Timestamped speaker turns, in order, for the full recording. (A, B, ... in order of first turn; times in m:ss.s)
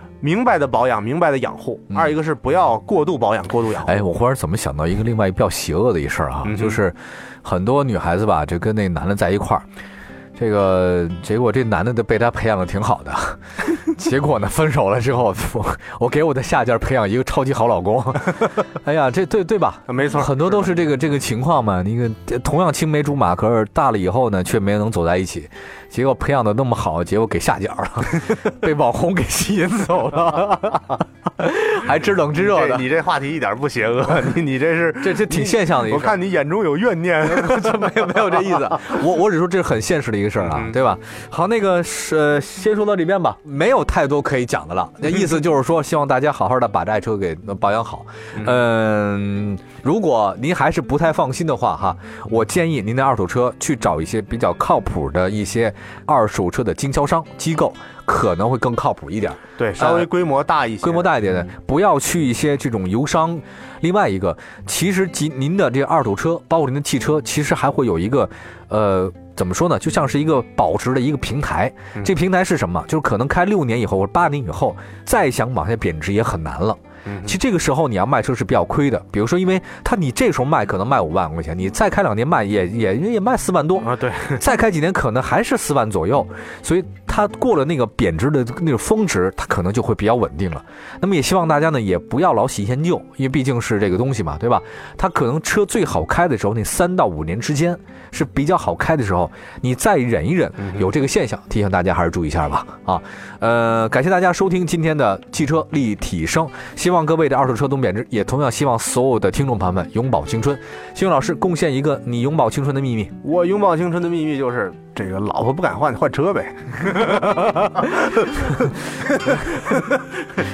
0:00.2-0:04.0 A
0:03.8-0:09.6 B
0:06.4-0:06.8 A
0:10.4-0:32.8 B
0:19.9-0:20.7 A
0:32.4-0:37.7 A
0:35.0-0:36.2 B
0:37.2-1:00.1 B
0:40.4-0:40.8 A
0:48.3-0:48.6 A
0:59.6-1:01.1 A
1:00.8-1:53.1 B
1:17.0-1:17.4 A
1:23.8-1:24.4 A
1:40.6-1:40.9 A
1:53.2-1:58.7 A
1:57.4-1:57.8 B
1:59.2-1:59.8 B